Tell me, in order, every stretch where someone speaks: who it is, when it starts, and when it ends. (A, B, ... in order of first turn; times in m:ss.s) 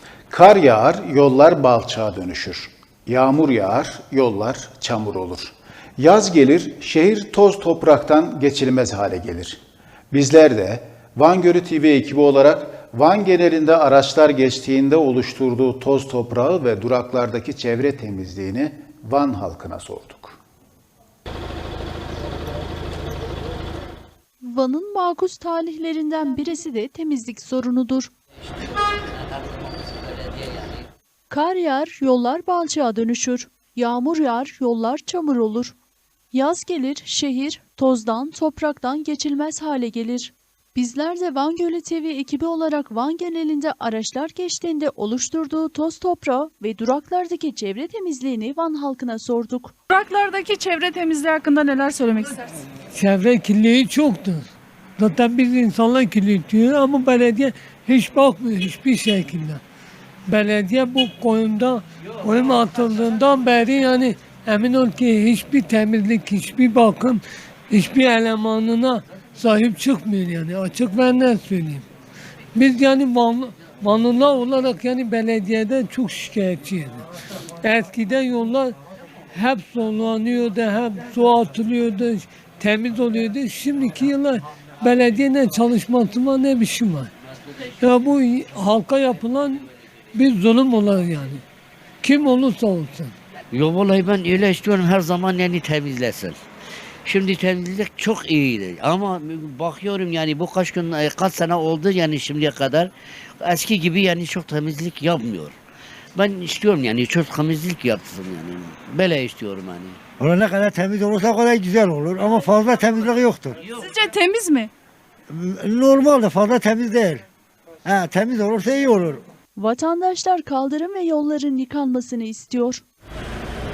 0:00.3-0:09.6 A
0:10.1-0:20.4 A
0:24.4-0:28.1 B
0:31.3-0:35.7 B
0:36.3-0:49.8 B
0:49.9-0:52.6 C
0:52.9-0:54.5 D
0:55.0-0:59.6 D
1:00.3-1:11.8 D
1:12.5-1:17.1 D
1:17.6-1:18.8 D
1:19.3-1:27.1 D
1:27.8-1:31.4 D
1:32.0-1:33.1 D
1:33.5-1:36.4 E
1:37.0-1:42.9 E
1:43.4-1:45.5 E
1:46.1-1:50.0 E
1:50.2-1:53.6 F
1:53.7-1:54.7 C
1:55.3-1:57.2 F
1:57.8-1:59.2 F
1:59.6-2:02.8 B